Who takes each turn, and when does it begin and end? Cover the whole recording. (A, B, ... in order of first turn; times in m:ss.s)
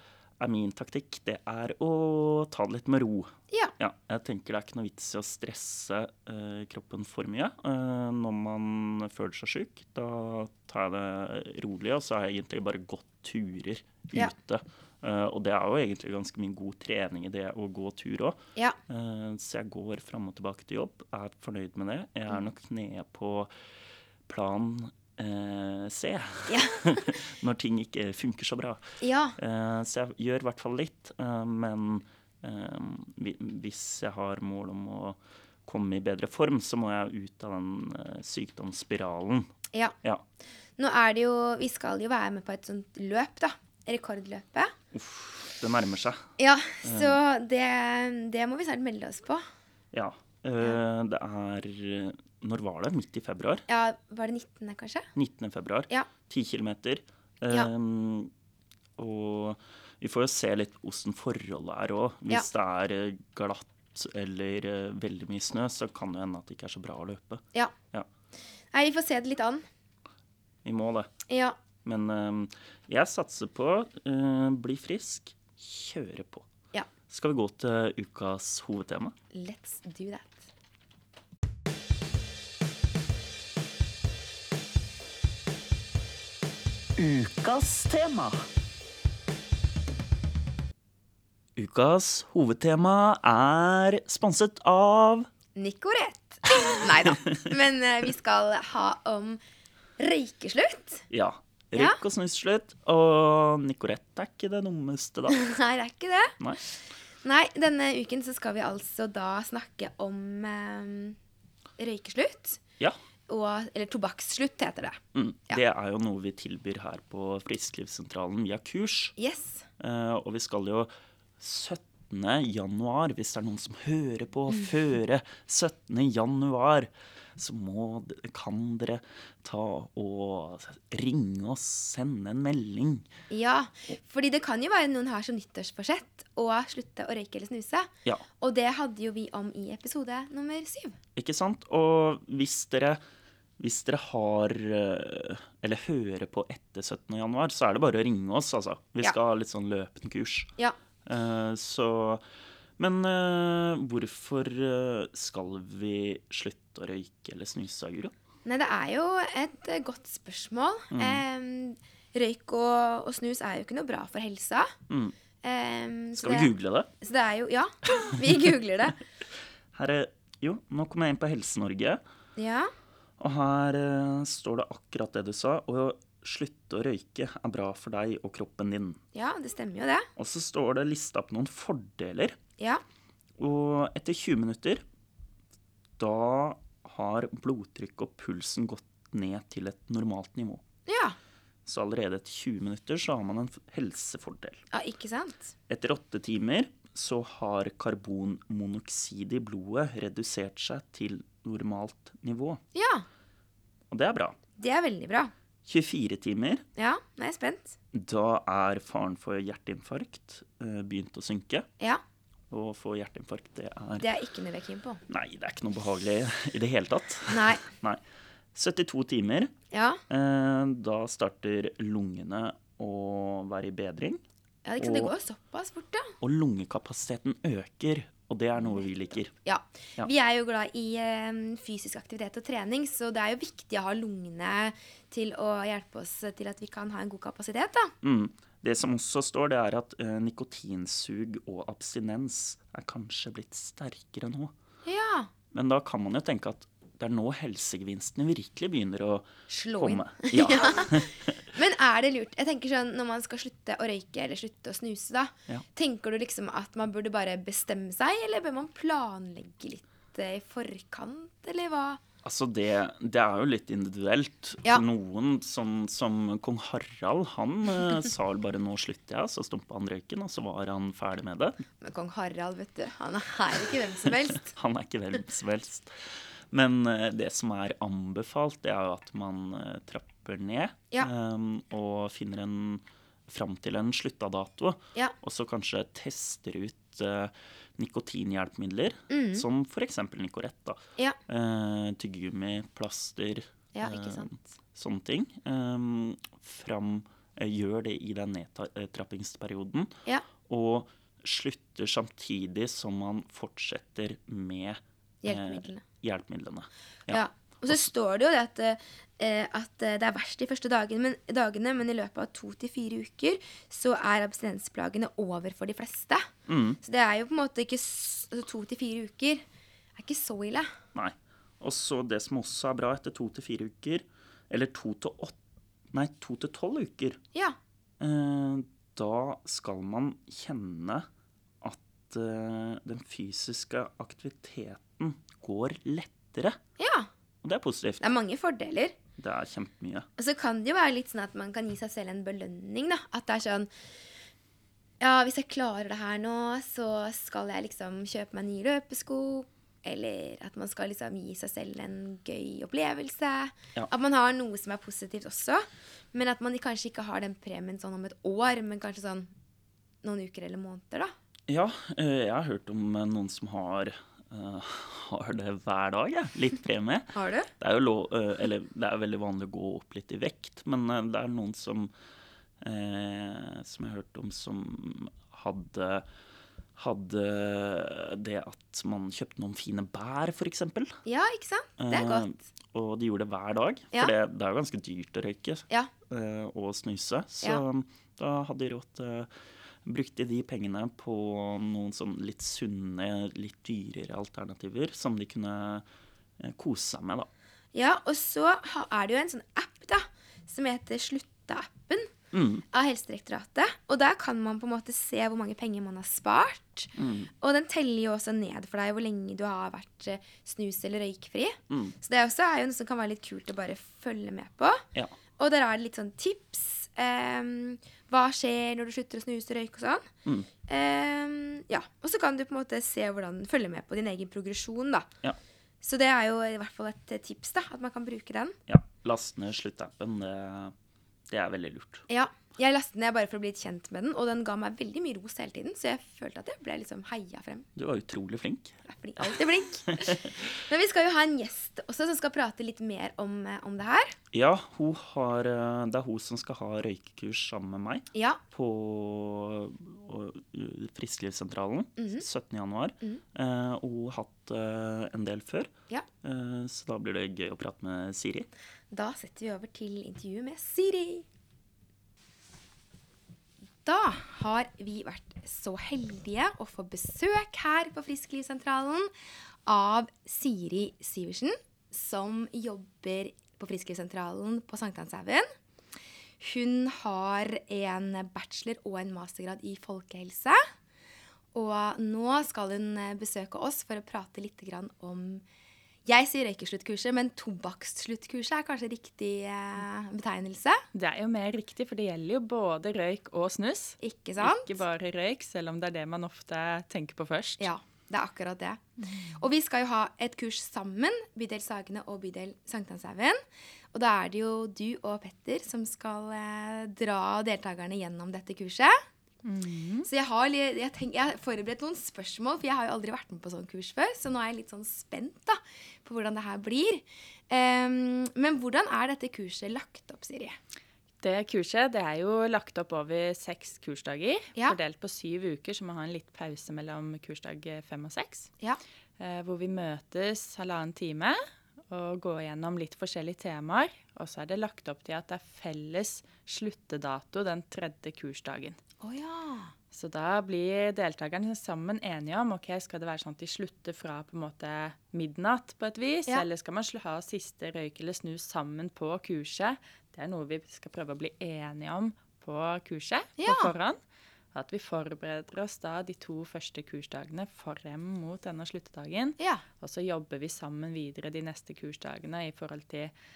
0:00.4-0:23.5 A
0:24.3-0:28.8 A
0:26.5-0:27.1 B
0:29.0-0:29.4 B
0:29.4-0:39.5 A
0:40.8-0:44.7 B
0:44.9-0:46.2 A
0:46.4-0:49.4 B
0:46.8-0:47.2 A
0:49.9-0:53.6 A
0:53.7-0:55.1 B
0:55.2-0:58.3 A
0:59.0-1:08.1 A
1:08.7-1:09.6 B
1:10.6-1:11.1 A
1:11.3-1:11.6 B
1:11.8-1:16.5 A
1:17.1-1:19.1 A
1:19.3-1:20.4 B
1:27.0-1:28.4 A
1:31.6-1:35.3 A
1:35.6-1:39.4 B
1:40.0-1:41.0 B
1:41.1-1:45.4 A
1:45.3-1:46.3 B
1:47.2-1:51.2 B
1:51.8-1:52.6 B
1:53.3-1:55.6 B
1:55.1-1:59.1 A
1:59.2-1:59.7 B
1:59.8-2:13.1 A
2:13.3-2:21.0 B
2:21.2-2:23.0 A
2:23.6-2:30.5 A
2:31.0-2:32.2 A
2:32.8-2:38.1 A
2:38.4-2:44.7 B
2:40.9-2:41.2 A
2:44.9-2:45.1 A
2:45.4-2:49.0 B
2:46.1-2:46.9 A
2:49.7-2:52.0 A
2:52.4-2:52.7 B
2:53.2-2:59.0 A
2:59.1-3:00.1 B
3:00.2-3:02.4 A
3:03.4-3:04.8 A
3:06.0-3:10.6 A
3:10.9-3:11.2 B
3:11.6-3:14.6 A
3:14.7-3:15.5 B
3:15.7-3:22.6 A
3:22.7-3:23.0 B
3:23.9-3:24.4 A
3:24.6-3:25.3 B
3:25.6-3:26.6 A
3:26.8-3:27.8 B
3:27.9-3:31.7 A
3:32.5-3:34.1 A
3:34.0-3:35.0 B
3:35.1-3:38.0 A
3:37.3-3:37.6 B
3:38.5-3:39.5 A
3:39.7-3:40.0 B
3:40.1-3:44.2 A
3:44.6-3:46.1 B
3:44.8-3:45.1 A
3:46.2-3:49.3 A
3:48.6-3:48.9 B
3:49.4-3:57.9 B
3:58.0-4:04.5 A
4:04.8-4:05.3 B
4:05.5-4:11.3 A
4:09.5-4:22.0 B
4:22.2-4:31.6 A
4:31.8-4:34.5 B
4:34.0-4:59.9 A
4:49.1-4:49.4 B
4:53.7-4:54.4 B
5:00.4-5:07.9 A
5:05.2-5:05.8 B
5:07.1-5:16.3 B
5:16.5-5:16.8 A
5:16.8-5:19.4 B
5:20.0-5:20.7 B
5:20.9-5:25.4 A
5:25.9-5:27.2 A
5:28.0-5:31.1 A
5:31.6-5:36.6 A
5:36.8-5:37.1 B
5:37.4-5:38.0 A
5:38.0-5:38.9 B
5:39.2-5:40.1 A
5:40.2-5:43.7 B
5:45.0-5:59.3 B
6:00.0-6:01.1 B
6:01.5-6:11.9 A
6:07.1-6:07.5 B
6:12.6-6:16.0 A
6:16.8-6:21.0 A
6:21.0-6:22.4 B
6:21.8-6:29.3 A
6:29.8-6:35.8 A
6:36.4-6:37.3 A
6:37.7-6:42.1 B
6:42.3-6:42.6 A
6:42.7-6:54.8 B
6:47.0-6:47.3 A
6:51.7-6:51.9 A
6:55.4-7:00.1 B
7:00.7-7:05.1 B
7:05.8-7:08.6 B
7:08.7-7:10.7 A
7:11.3-7:12.0 A
7:12.1-7:17.7 B
7:17.8-7:20.4 A
7:18.9-7:24.2 B
7:24.3-7:35.7 A
7:28.1-7:28.4 B
7:32.0-7:32.2 B
7:36.2-7:38.5 A
7:38.9-7:41.2 B
7:43.8-7:49.1 B
7:49.6-7:55.5 B
7:56.4-8:00.6 B
8:01.5-8:05.4 B
8:06.0-8:10.8 B
8:10.9-8:17.7 C
8:14.0-8:14.8 B
8:17.6-8:18.8 B
8:19.0-8:19.4 C
8:19.3-8:23.4 B
8:23.9-8:29.0 B
8:29.4-8:30.1 C
8:30.0-8:40.6 B
8:41.2-8:48.5 C
8:49.2-8:58.8 C
8:59.0-8:59.7 B
8:59.9-9:14.0 C
9:13.4-9:13.7 B
9:14.5-9:23.1 C
9:19.4-9:19.6 B